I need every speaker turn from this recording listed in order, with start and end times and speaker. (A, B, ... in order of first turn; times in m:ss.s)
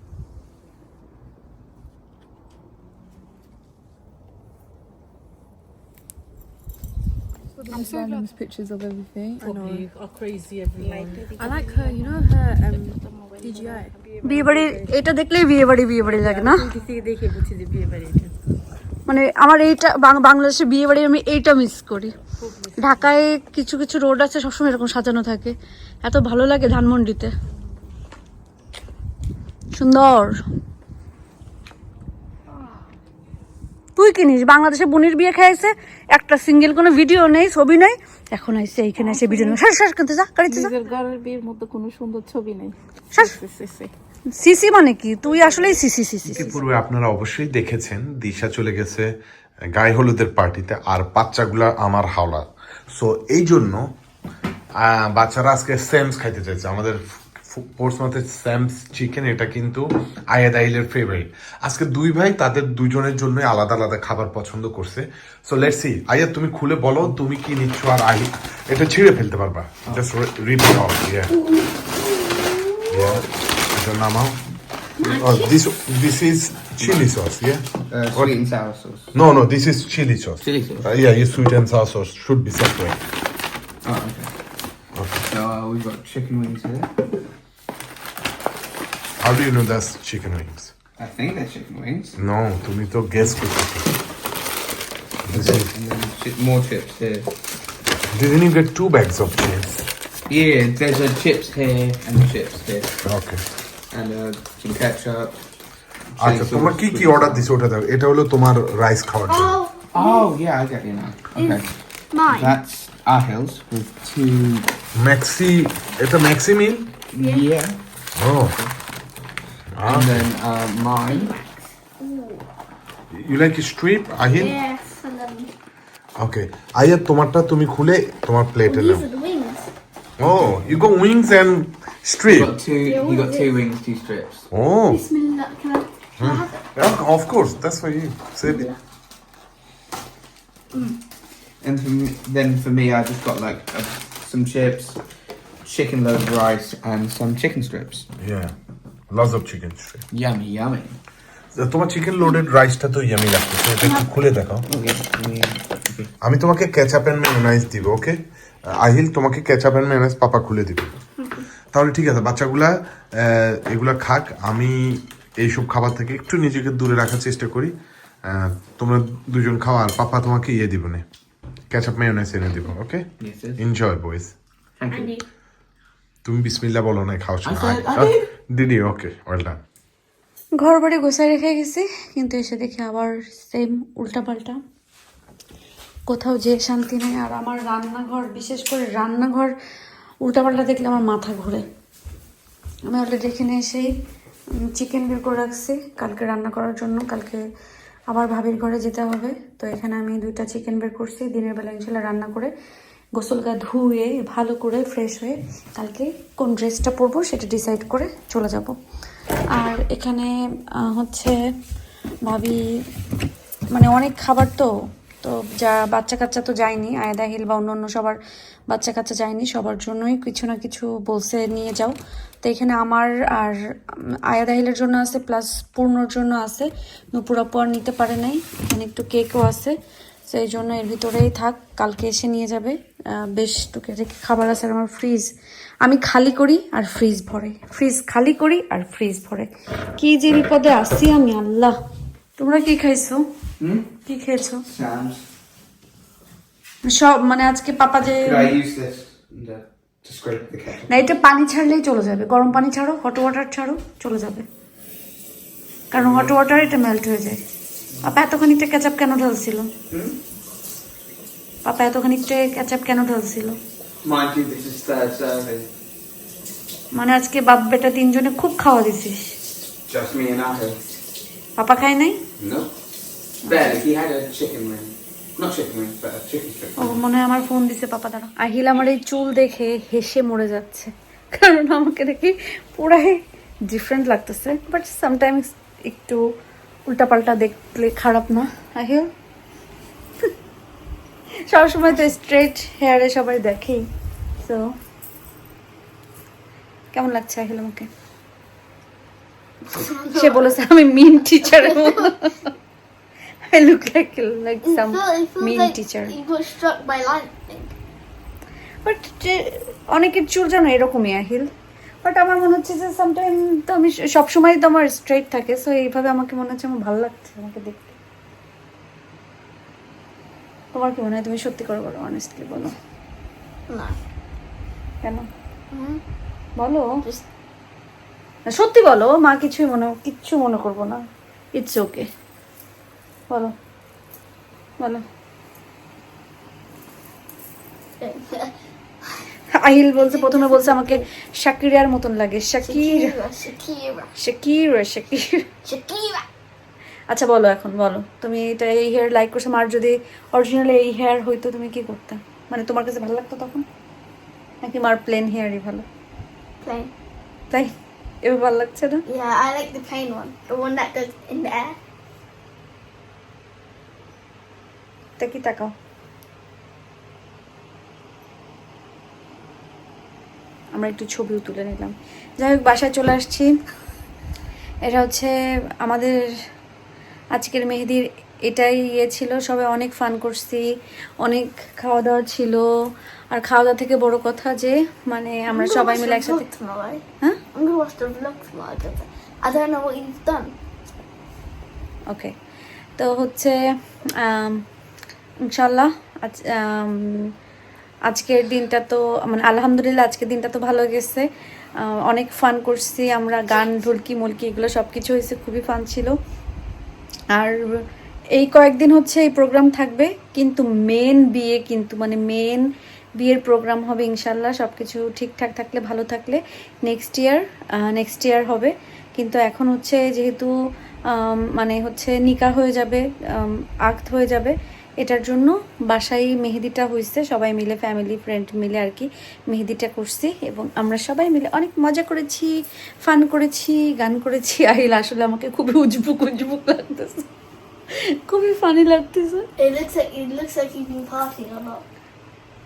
0:07.7-0:09.8 A
0:09.4-0:11.7 B
0:10.8-0:14.9 A
0:14.2-0:16.7 C
0:16.4-0:17.1 A
0:16.7-0:18.3 B
0:19.1-0:22.1 C
0:22.8-0:27.3 C
0:29.8-0:30.4 C
0:34.0-0:40.7 C
0:39.0-0:39.6 A
0:40.5-0:43.9 A
0:44.3-0:46.6 C
0:46.3-0:49.1 D
0:49.7-0:53.9 D
0:54.8-1:11.3 D
1:11.3-1:13.0 E
1:12.9-1:14.4 D
1:15.0-1:15.5 E
1:15.0-1:18.3 D
1:17.9-1:19.1 F
1:19.1-1:23.0 D
1:20.4-1:20.9 F
1:23.8-1:24.3 F
1:25.2-1:26.9 F
1:29.2-1:30.7 D
1:31.0-1:32.2 F
1:32.2-1:33.9 D
1:35.3-1:35.7 D
1:35.3-1:37.3 F
1:38.1-1:39.8 D
1:40.3-1:42.9 F
1:43.0-1:43.4 D
1:43.9-1:45.4 F
1:46.1-1:47.4 F
1:46.2-1:49.6 D
1:49.3-1:50.3 E
1:49.9-1:51.7 F
1:51.3-1:52.5 E
1:52.3-1:54.7 F
1:55.0-1:56.9 D
1:57.1-1:57.8 F
1:57.2-1:57.4 E
1:58.2-1:58.5 D
1:59.8-2:00.2 D
1:59.8-2:01.3 F
2:01.0-2:02.4 E
2:03.1-2:04.6 D
2:04.3-2:05.5 E
2:06.2-2:09.0 D
2:08.7-2:09.7 E
2:10.2-2:12.5 D
2:10.4-2:10.6 F
2:12.3-2:14.5 F
2:12.8-2:13.5 E
2:14.5-2:15.0 D
2:14.9-2:16.6 E
2:16.2-2:18.7 D
2:18.4-2:18.8 E
2:21.6-2:25.0 F
2:25.6-2:28.0 F
2:28.2-2:28.5 D
2:29.1-2:30.0 D
2:30.1-2:31.0 F
2:31.6-2:34.6 D
2:34.7-2:36.1 F
2:36.2-2:38.2 D
2:38.7-2:40.9 D
2:41.7-2:47.7 D
2:48.2-2:51.0 D
2:51.7-2:54.3 D
2:53.2-2:53.6 F
2:54.8-2:55.2 F
2:54.9-2:55.2 E
2:56.2-2:59.6 D
2:57.4-2:58.3 F
3:00.6-3:04.6 C
3:06.1-3:09.5 C
3:10.2-3:11.6 C
3:12.9-3:13.9 C
3:14.6-3:17.4 C
3:18.1-3:22.5 C
3:23.2-3:28.8 C
3:29.5-3:31.4 C
3:32.2-3:32.6 C
3:33.7-3:34.7 C
3:35.2-3:38.2 C
3:38.7-3:43.6 C
3:44.3-3:49.7 C
3:50.3-3:55.3 C
3:55.8-4:01.7 C
4:02.4-4:03.2 C
4:03.6-4:03.9 F
4:04.0-4:04.6 C
4:04.7-4:05.2 F
4:06.8-4:08.5 C
4:08.2-4:11.0 F
4:10.9-4:14.4 C
4:15.9-4:16.3 F
4:15.9-4:17.4 C
4:18.0-4:19.7 C
4:19.9-4:20.2 F
4:21.6-4:23.6 C
4:24.0-4:25.7 F
4:26.9-4:29.3 C
4:29.9-4:30.8 F
4:31.6-4:32.2 C
4:32.4-4:32.7 F
4:33.4-4:33.8 C
4:33.5-4:37.0 F
4:36.8-4:46.2 C
4:46.9-4:49.1 C
4:51.5-4:53.8 C
4:54.4-4:54.7 C
4:56.9-4:57.9 C
4:59.7-5:00.4 E
4:59.9-5:02.4 C
5:01.7-5:02.0 E
5:03.5-5:06.1 C
5:04.6-5:07.7 E
5:08.8-5:11.5 C
5:12.0-5:18.0 C
5:20.7-5:22.8 C
5:23.7-5:24.0 E
5:25.7-5:26.0 E
5:26.6-5:26.8 C
5:28.5-5:31.0 C
5:31.6-5:32.1 C
5:38.0-5:39.2 E
5:39.6-5:43.1 C
5:40.0-5:41.0 E
5:42.6-5:44.1 E
5:44.2-5:45.4 C
5:45.6-5:46.2 E
5:47.1-5:53.6 C
5:54.6-5:55.8 C
5:56.6-5:56.9 E
5:58.2-5:59.0 C
5:59.1-6:01.8 E
6:05.2-6:05.7 C
6:10.7-6:13.5 C
6:14.8-6:15.3 C
6:15.8-6:16.2 C
6:17.3-6:20.6 C
6:21.2-6:22.6 C
6:23.3-6:26.4 C
6:25.5-6:30.5 E
6:33.0-6:33.5 C
6:34.2-6:34.6 C
6:35.5-6:37.2 C
6:38.1-6:41.2 C
6:42.0-6:46.2 C
6:48.4-6:52.6 C
6:53.2-7:00.5 C
7:01.1-7:12.5 C
7:13.0-7:17.2 C
7:18.3-7:19.4 C
7:19.6-7:21.8 E